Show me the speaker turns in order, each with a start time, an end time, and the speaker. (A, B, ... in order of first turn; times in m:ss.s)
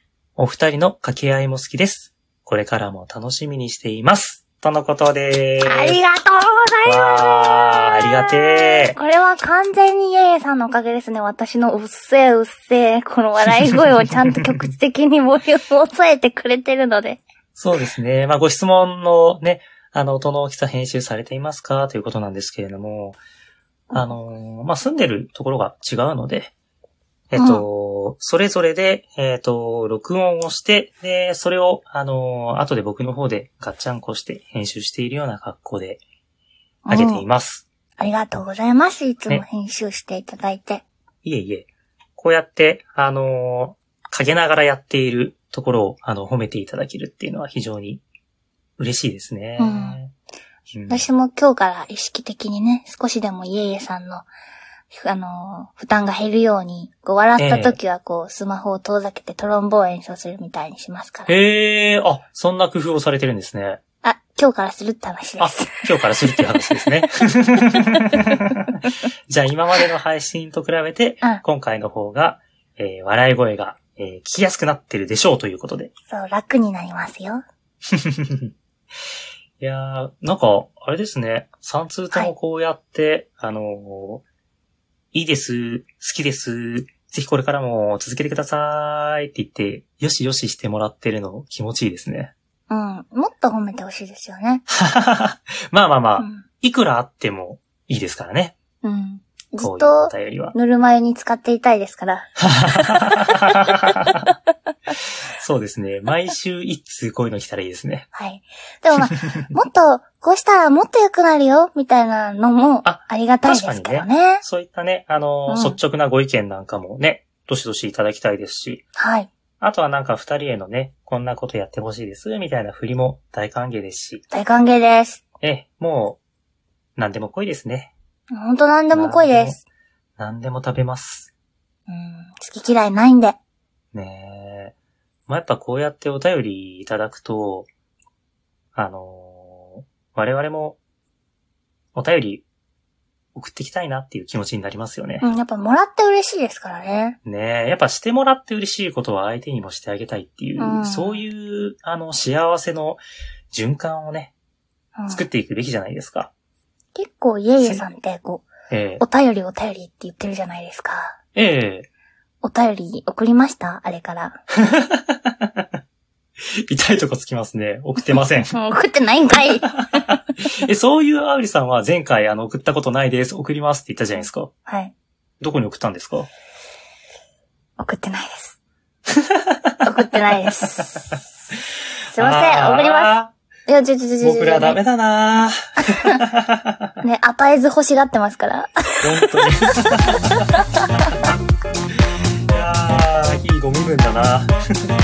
0:00.4-0:06.0 A
0:05.6-0:17.2 B
0:06.8-0:09.0 A
0:17.5-0:23.2 A
0:23.9-0:26.5 A
0:27.3-0:36.0 A
0:27.4-0:27.6 B
0:36.8-0:37.2 B
0:36.9-0:37.6 A
0:38.0-0:40.8 B
0:41.2-0:48.0 A
0:48.8-0:50.1 A
0:49.6-0:50.0 B
0:50.7-0:51.1 A
0:50.9-0:54.3 B
0:54.9-1:01.3 B
0:57.4-0:57.8 A
1:01.3-1:03.8 A
1:04.0-1:06.8 B
1:05.4-1:08.8 A
1:09.3-1:15.9 A
1:16.1-1:17.4 B
1:17.9-1:18.5 A
1:19.6-1:24.2 A
1:25.1-1:32.3 A
1:32.7-1:34.6 B
1:34.7-1:38.5 A
1:36.2-1:36.4 B
1:38.8-1:43.1 B
1:39.6-1:40.5 A
1:42.4-1:44.2 A
1:45.3-1:48.1 A
1:48.1-1:54.4 B
1:52.8-1:58.8 A
1:55.5-1:55.8 B
1:59.0-1:59.3 B
1:59.6-2:04.2 A
2:04.3-2:05.2 B
2:05.4-2:06.2 A
2:07.0-2:07.9 A
2:08.3-2:09.6 B
2:08.9-2:09.6 A
2:10.2-2:11.3 A
2:11.9-2:13.4 B
2:13.9-2:14.7 A
2:15.3-2:17.7 A
2:18.7-2:20.8 A
2:21.9-2:22.4 A
2:23.3-2:25.2 A
2:25.2-2:27.2 B
2:27.2-2:33.0 A
2:30.6-2:31.2 B
2:33.5-2:34.3 A
2:35.0-2:35.2 B
2:35.1-2:36.3 A
2:36.9-2:38.5 B
2:38.7-2:39.0 A
2:39.0-2:41.2 B
2:41.4-2:41.9 A
2:42.4-2:44.4 B
2:44.6-2:45.6 A
2:46.6-2:48.5 A
2:48.5-2:49.7 B
2:49.6-2:54.5 A
2:54.7-2:54.9 B
2:55.4-2:56.3 A
2:57.8-2:58.6 B
2:59.2-2:59.8 A
2:59.8-3:01.2 B
3:02.1-3:03.1 B
3:02.2-3:03.3 A
3:03.7-3:04.8 B
3:04.2-3:06.9 A
3:07.0-3:09.4 B
3:09.0-3:10.5 A
3:10.3-3:10.8 B
3:12.5-3:14.5 A